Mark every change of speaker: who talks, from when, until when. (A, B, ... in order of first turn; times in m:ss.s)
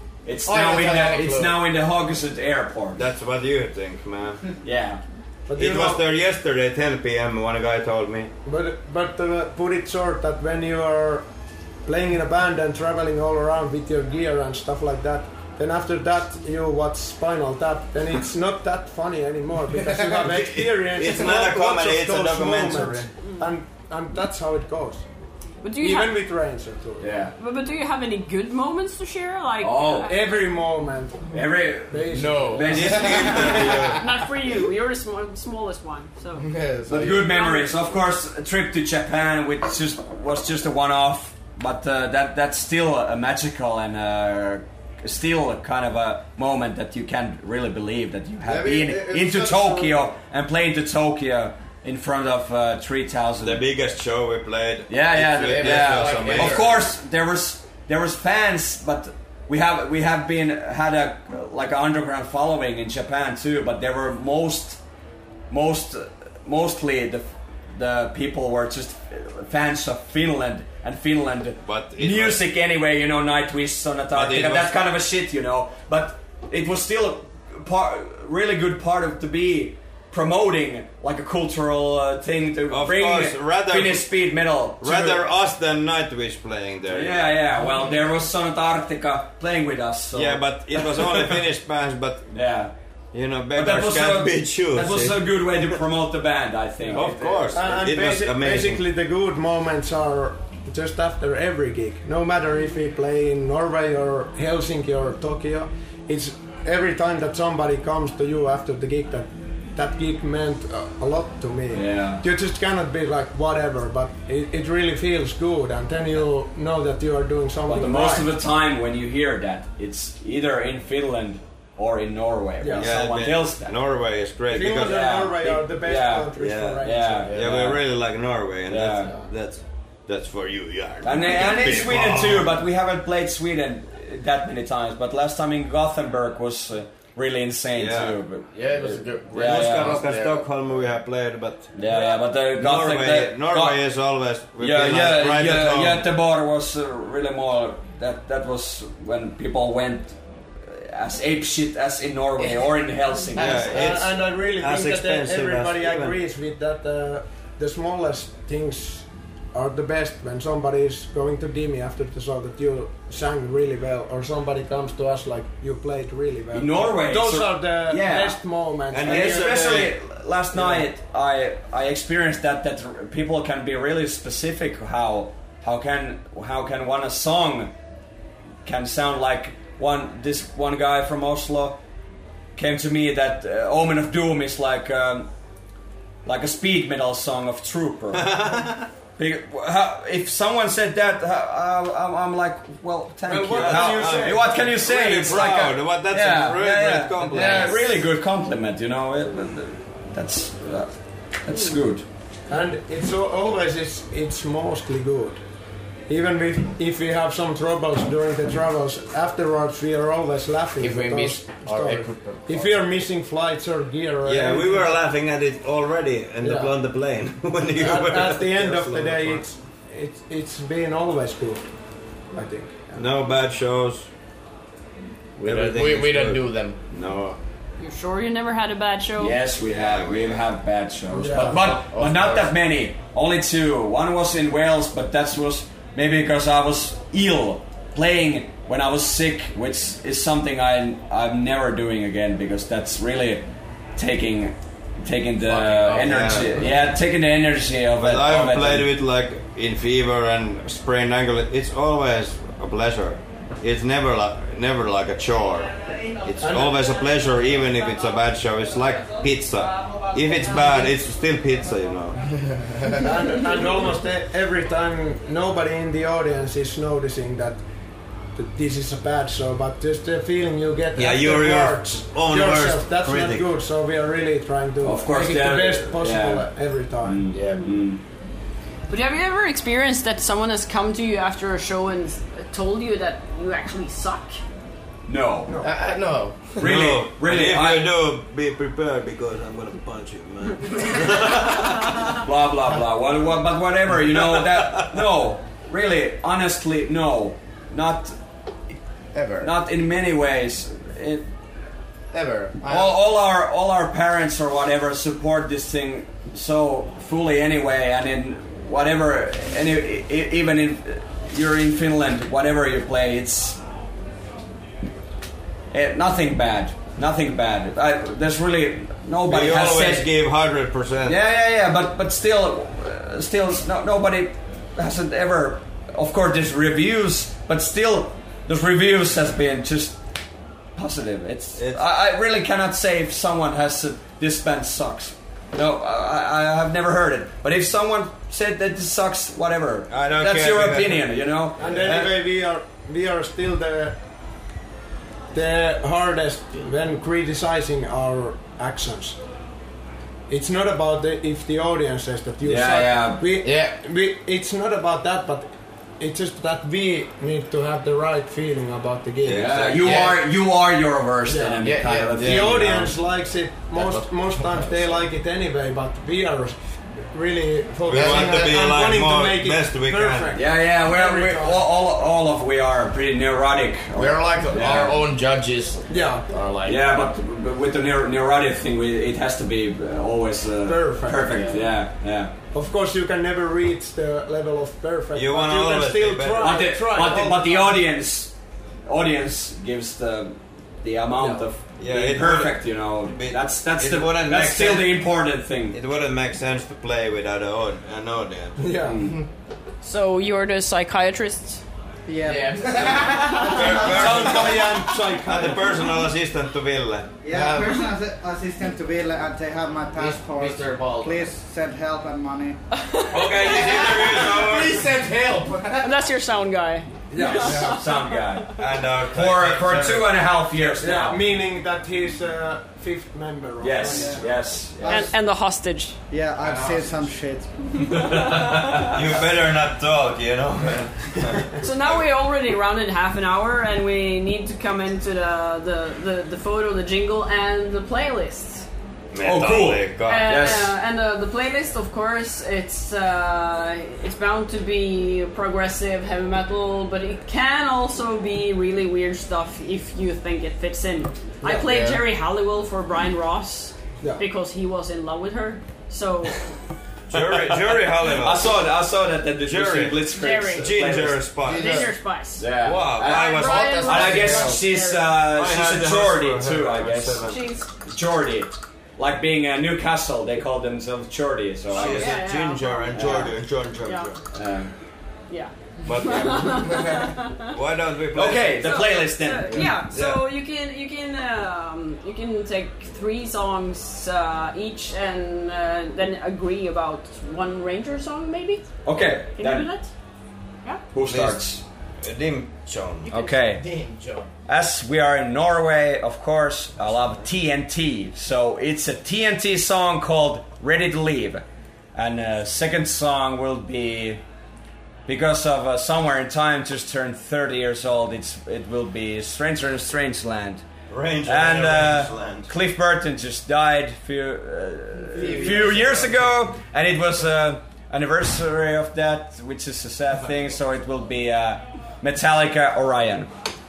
0:00.2-0:03.0 A
0:00.4-0:01.6 B
0:02.9-0:04.4 C
0:04.6-0:05.0 A
0:05.5-0:06.0 D
0:05.6-0:08.3 C
0:08.4-0:11.2 D
0:11.8-0:25.0 D
0:19.9-0:23.1 C
0:25.6-0:26.2 E
0:25.8-0:27.1 D
0:27.0-0:27.3 A
0:27.4-0:30.2 E
0:29.6-0:30.1 A
0:30.0-0:31.4 D
0:31.3-0:34.0 A
0:31.9-0:32.8 D
0:32.1-0:33.9 B
0:32.7-0:34.0 C
0:34.0-0:36.4 E
0:36.4-0:37.4 B
0:36.9-0:53.6 A
0:37.3-0:37.9 E
0:48.4-0:50.0 B
0:53.4-0:56.8 C
0:54.9-1:04.8 A
0:55.4-0:56.8 B
1:05.5-1:25.2 A
1:11.6-1:12.4 C
1:14.1-1:14.7 C
1:22.7-1:24.1 C
1:24.8-1:27.3 C
1:26.9-1:31.4 A
1:30.1-1:32.3 C
1:32.3-1:32.7 A
1:33.1-1:35.2 C
1:33.5-1:37.6 A
1:36.9-1:38.8 C
1:37.5-1:58.3 D
1:51.7-1:52.2 A
1:57.7-2:03.7 A
2:02.6-2:02.9 D
2:02.8-2:05.1 C
2:04.5-2:07.3 D
2:04.7-2:07.8 A
2:06.4-2:12.5 C
2:08.7-2:09.1 A
2:11.0-2:20.1 A
2:17.7-2:18.2 C
2:18.5-2:20.4 B
2:19.4-2:26.0 C
2:21.7-2:23.8 A
2:24.6-2:33.9 A
2:32.4-2:32.6 B
2:33.3-2:33.7 B
2:33.4-2:36.2 C
2:33.7-2:49.7 D
2:46.5-2:48.4 A
2:48.9-2:49.9 C
2:49.0-2:57.7 A
2:50.5-2:50.8 D
2:58.6-3:01.8 A
3:02.6-3:05.3 A
3:06.2-3:08.6 A
3:08.1-3:08.9 C
3:09.2-3:22.0 A
3:13.3-3:15.5 D
3:13.4-3:17.8 C
3:17.4-3:17.6 B
3:22.5-3:25.4 D
3:26.1-3:35.0 D
3:30.8-3:32.8 B
3:34.2-3:39.4 C
3:36.4-3:36.7 D
3:37.7-3:41.7 D
3:42.3-3:43.1 D
3:43.0-3:44.1 C
3:45.4-3:47.4 C
3:45.4-3:46.8 B
3:47.8-3:49.4 E
3:49.2-4:03.4 A
3:49.7-3:50.4 C
3:51.1-3:52.5 B
3:51.2-3:51.6 D
4:04.0-4:08.9 A
4:05.4-4:06.8 B
4:06.1-4:06.4 C
4:08.0-4:22.3 C
4:16.4-4:16.8 D
4:23.0-4:27.6 D
4:28.3-4:37.2 D
4:30.9-4:33.5 C
4:34.8-4:36.5 A
4:37.0-4:38.0 A
4:37.3-4:37.6 B
4:38.9-4:44.4 E
4:45.1-4:45.5 A
4:45.6-4:46.7 B
4:46.6-4:47.9 A
4:46.6-4:52.1 C
4:52.0-4:58.1 A
4:54.2-4:54.9 C
4:59.1-4:59.5 B
4:59.4-5:01.3 A
5:02.1-5:03.0 B
5:02.6-5:13.6 A
5:15.7-5:20.1 A
5:19.2-5:21.2 C
5:21.0-5:30.0 A
5:30.8-5:42.1 A
5:31.6-5:31.8 C
5:39.9-5:41.1 C
5:41.6-5:44.0 D
5:41.6-5:42.1 C
5:45.3-5:49.2 D
5:50.3-6:00.1 D
5:52.4-5:53.2 A
5:53.4-5:53.7 B
5:59.2-6:02.9 A
5:59.3-5:59.7 C
5:59.7-6:00.2 B
6:01.3-6:01.6 D
6:01.6-6:02.8 B
6:02.2-6:06.6 D
6:03.7-6:05.0 B
6:07.1-6:11.6 D
6:07.9-6:10.3 C
6:07.9-6:08.5 B
6:10.3-6:15.0 A
6:13.9-6:16.8 B
6:15.9-6:16.3 D
6:16.6-6:22.3 A
6:20.6-6:21.6 D
6:22.5-6:27.8 D
6:25.1-6:27.0 C
6:26.4-6:28.3 A
6:28.8-6:35.8 A
6:31.2-6:31.5 D
6:31.8-6:35.0 C
6:35.7-6:38.7 C
6:38.6-6:39.0 D
6:38.8-6:39.2 A
6:39.8-6:41.6 E
6:42.1-6:44.4 F
6:42.2-6:43.4 B
6:43.4-6:47.1 C
6:43.8-6:45.6 A
6:43.8-6:45.6 D
6:47.2-6:52.6 F
6:47.3-6:47.9 B
6:50.0-6:51.3 B
6:52.7-6:53.4 E
6:53.1-6:54.3 A
6:53.1-6:54.9 C
6:53.4-6:56.0 B
6:55.8-6:58.3 E
6:57.1-6:57.7 D
6:57.2-6:58.6 A
6:58.5-7:00.1 C
6:59.1-7:01.2 A
7:00.8-7:04.3 D
7:03.6-7:05.1 A
7:03.8-7:04.2 F
7:04.8-7:05.1 F
7:04.9-7:06.0 E
7:06.1-7:07.5 F
7:06.4-7:06.9 B
7:07.9-7:08.7 E
7:07.9-7:09.0 A
7:08.1-7:12.0 C
7:11.6-7:18.7 E
7:19.1-7:20.6 C
7:19.2-7:20.7 A
7:20.0-7:36.5 E
7:31.4-7:32.0 B
7:37.1-7:38.5 C
7:37.1-7:41.5 A
7:39.4-7:41.9 C
7:40.2-7:40.7 E
7:41.4-7:41.9 B
7:41.4-7:42.4 E
7:42.4-7:47.3 A
7:42.6-7:44.5 C
7:43.0-7:45.1 E
7:43.0-7:44.6 B
7:45.3-7:47.4 C
7:47.2-7:47.7 E
7:47.8-7:52.1 A
7:51.7-7:54.2 C
7:51.7-7:54.1 E
7:52.9-7:53.4 A
7:54.3-7:54.7 A
7:55.3-7:57.5 E
7:55.8-7:58.8 C
7:58.1-7:59.7 A
7:58.6-8:08.7 E
7:59.6-8:00.3 C
8:08.8-8:09.7 A
8:09.4-8:09.9 E
8:10.9-8:11.6 A
8:11.1-8:11.4 C
8:12.0-8:13.1 C
8:13.0-8:14.3 B
8:13.1-8:13.6 A
8:14.5-8:21.4 A
8:21.9-8:24.2 A
8:25.1-8:30.6 A
8:30.9-8:32.5 C
8:31.2-8:43.3 A
8:35.1-8:36.3 B